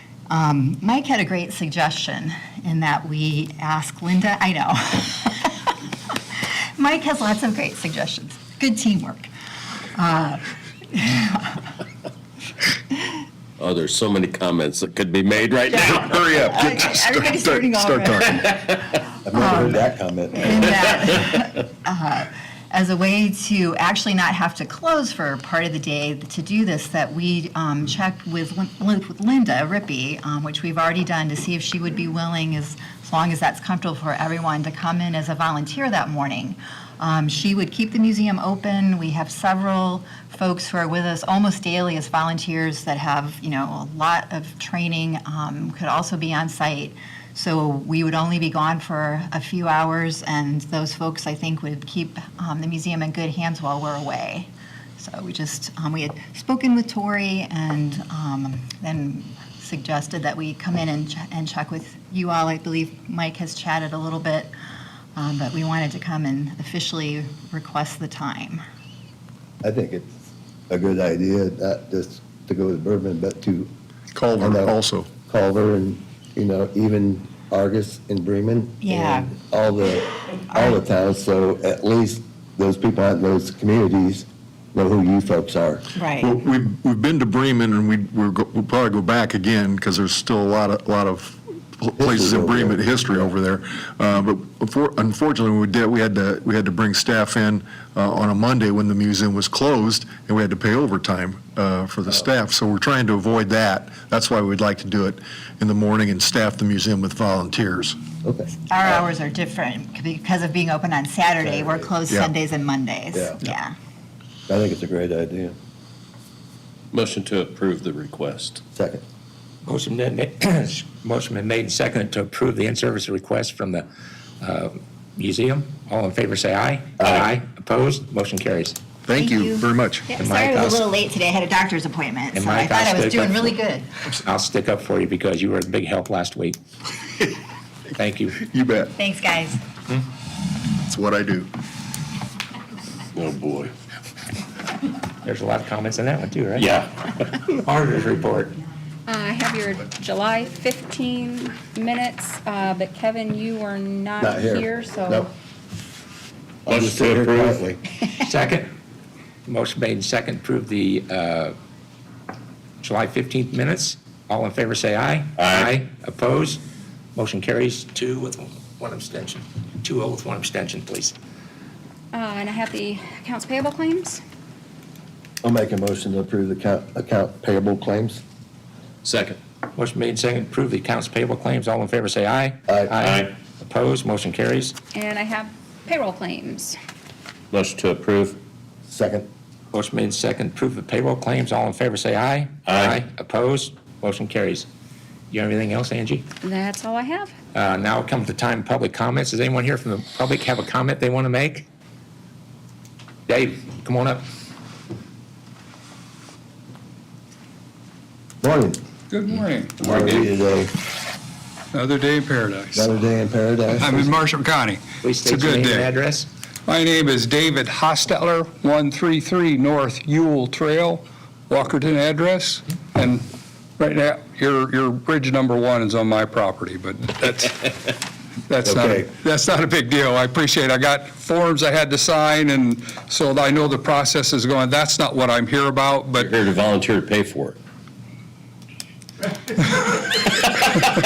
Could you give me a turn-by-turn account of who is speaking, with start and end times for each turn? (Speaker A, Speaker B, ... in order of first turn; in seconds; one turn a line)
Speaker A: 0.3-9.3
Speaker A: 9.9-11.7
Speaker B: 13.6-16.1
Speaker A: 15.7-18.8
Speaker C: 15.8-18.4
Speaker D: 19.2-20.7
Speaker A: 19.3-64.5
Speaker A: 65.2-68.6
Speaker D: 69.6-73.7
Speaker C: 74.1-75.1
Speaker D: 74.4-85.9
Speaker A: 78.8-79.3
Speaker A: 80.5-80.8
Speaker A: 86.0-86.3
Speaker C: 86.2-108.0
Speaker D: 92.0-93.3
Speaker D: 108.2-108.5
Speaker A: 108.7-113.7
Speaker D: 111.4-111.8
Speaker D: 114.5-115.5
Speaker B: 116.9-118.6
Speaker D: 118.7-119.0
Speaker E: 119.7-123.9
Speaker E: 124.4-128.8
Speaker D: 127.0-127.2
Speaker C: 129.1-130.1
Speaker A: 129.2-133.9
Speaker E: 130.2-130.8
Speaker E: 132.3-133.5
Speaker E: 134.2-136.6
Speaker E: 138.0-138.4
Speaker C: 138.4-138.9
Speaker A: 139.0-139.6
Speaker C: 140.8-141.5
Speaker B: 143.1-143.7
Speaker E: 145.2-146.8
Speaker B: 146.6-147.1
Speaker E: 147.5-148.6
Speaker F: 149.1-155.3
Speaker D: 154.2-155.3
Speaker D: 156.7-157.8
Speaker B: 156.7-157.7
Speaker E: 158.2-158.7
Speaker E: 159.5-161.6
Speaker E: 162.8-166.6
Speaker B: 165.4-165.7
Speaker E: 167.2-171.1
Speaker F: 172.1-174.2
Speaker D: 175.4-178.2
Speaker B: 179.0-179.4
Speaker E: 179.7-184.8
Speaker D: 182.7-183.0
Speaker B: 183.0-183.3
Speaker F: 184.9-186.8
Speaker B: 187.5-188.4
Speaker D: 188.9-189.3
Speaker E: 189.7-194.7
Speaker B: 192.7-193.0
Speaker E: 195.3-196.3
Speaker F: 196.4-197.3
Speaker E: 197.5-201.7
Speaker E: 203.3-204.2
Speaker D: 208.4-208.8
Speaker G: 209.1-209.9
Speaker D: 209.8-210.7
Speaker G: 211.7-212.9
Speaker D: 212.7-214.1
Speaker G: 213.8-215.9
Speaker E: 215.0-216.3
Speaker G: 216.7-223.2
Speaker G: 223.8-227.7
Speaker G: 228.5-236.3
Speaker D: 228.7-229.0
Speaker B: 236.2-237.6